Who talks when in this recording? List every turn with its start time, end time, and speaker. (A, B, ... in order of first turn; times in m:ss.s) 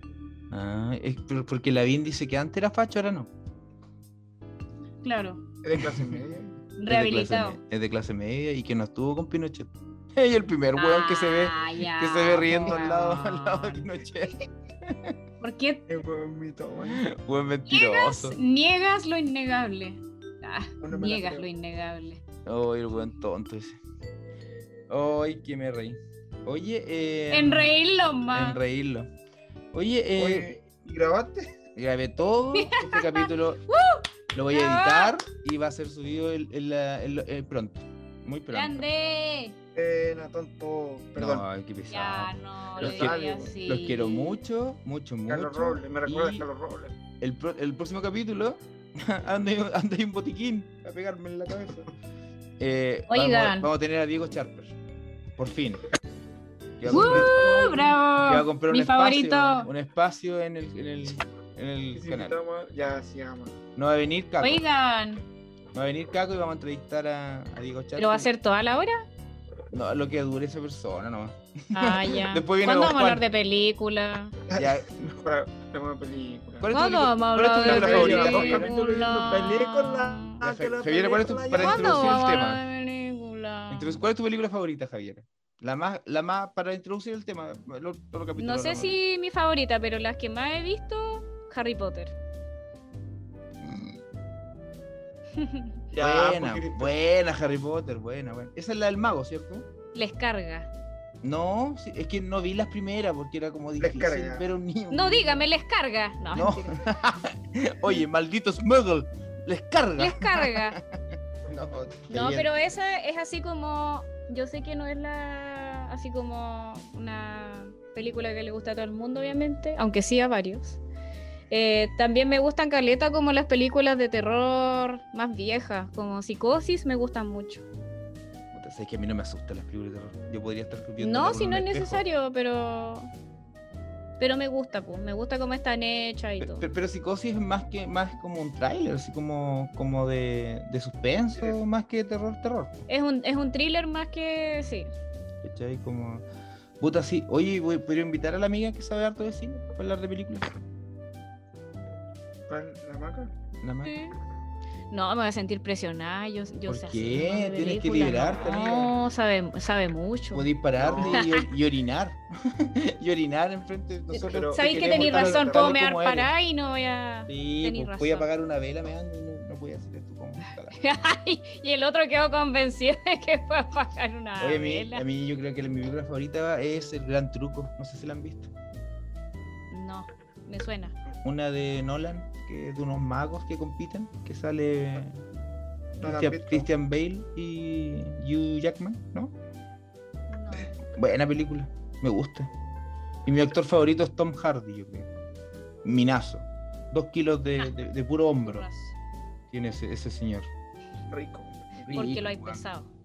0:00.5-0:03.3 A
0:05.0-0:05.4 B
0:05.6-0:06.6 C
0:05.8-0:06.2 A
0:06.8-0:07.6 B
0:06.9-0:15.2 A
0:10.8-0:13.8 B
0:15.4-0:15.8 B
0:15.9-0:17.0 C
0:16.9-0:18.4 A
0:17.7-0:22.2 B
0:20.8-0:21.5 C
0:22.5-0:23.8 A
0:24.9-0:27.7 A
0:27.3-0:28.6 B
0:28.3-0:29.1 A
0:29.7-0:30.5 A
0:30.2-0:31.5 C
0:31.8-0:33.6 A
0:32.6-0:35.2 B
0:34.3-0:38.8 A
0:38.5-0:39.6 B
0:39.8-0:41.5 C
0:41.2-0:46.5 A
0:41.9-0:44.4 B
0:42.8-0:43.6 C
0:45.3-0:47.0 C
0:47.2-0:51.9 A
0:52.6-0:54.8 A
0:53.1-0:53.7 B
0:55.4-0:55.8 A
0:56.8-1:02.4 A
0:56.8-0:58.0 C
0:56.9-0:59.7 B
1:01.9-1:03.6 C
1:03.8-1:04.6 A
1:04.4-1:05.2 B
1:05.7-1:08.3 A
1:08.0-1:09.0 B
1:09.7-1:13.2 A
1:11.8-1:14.4 B
1:14.5-1:16.7 C
1:14.5-1:15.0 A
1:16.6-1:18.7 A
1:16.7-1:20.4 B
1:17.4-1:22.2 C
1:20.4-1:22.6 A
1:21.6-1:24.0 B
1:23.7-1:29.0 A
1:28.4-1:32.1 B
1:33.6-1:34.0 A
1:35.4-1:35.7 B
1:35.9-1:37.0 C
1:36.0-1:39.7 A
1:39.9-1:40.7 B
1:41.2-1:45.5 A
1:43.8-1:44.5 C
1:44.9-1:46.8 B
1:46.3-1:52.5 A
1:50.0-1:50.8 B
1:52.1-2:00.8 B
2:01.5-2:07.6 B
2:08.5-2:12.0 A
2:11.0-2:13.1 B
2:14.2-2:16.6 B
2:16.4-2:22.8 A
2:22.9-2:24.9 B
2:25.4-2:26.2 A
2:26.8-2:30.5 A
2:32.5-2:33.3 C
2:33.6-2:33.9 A
2:33.8-2:34.2 B
2:34.9-2:40.5 B
2:36.7-2:38.9 A
2:40.3-2:46.3 A
2:40.8-2:41.3 C
2:41.1-2:41.5 B
2:44.1-2:48.3 B
2:44.2-2:45.8 C
2:47.3-2:50.8 A
2:50.8-2:55.0 B
2:54.4-2:58.5 A
2:59.7-3:01.0 B
3:01.2-3:05.2 A
3:06.0-3:09.4 A
3:06.0-3:06.7 C
3:10.3-3:10.8 B
3:10.8-3:12.5 A
3:13.3-3:15.1 A
3:15.8-3:18.7 A
3:18.4-3:19.0 B
3:19.5-3:20.5 A
3:21.1-3:21.9 C
3:21.9-3:22.6 A
3:21.9-3:22.9 B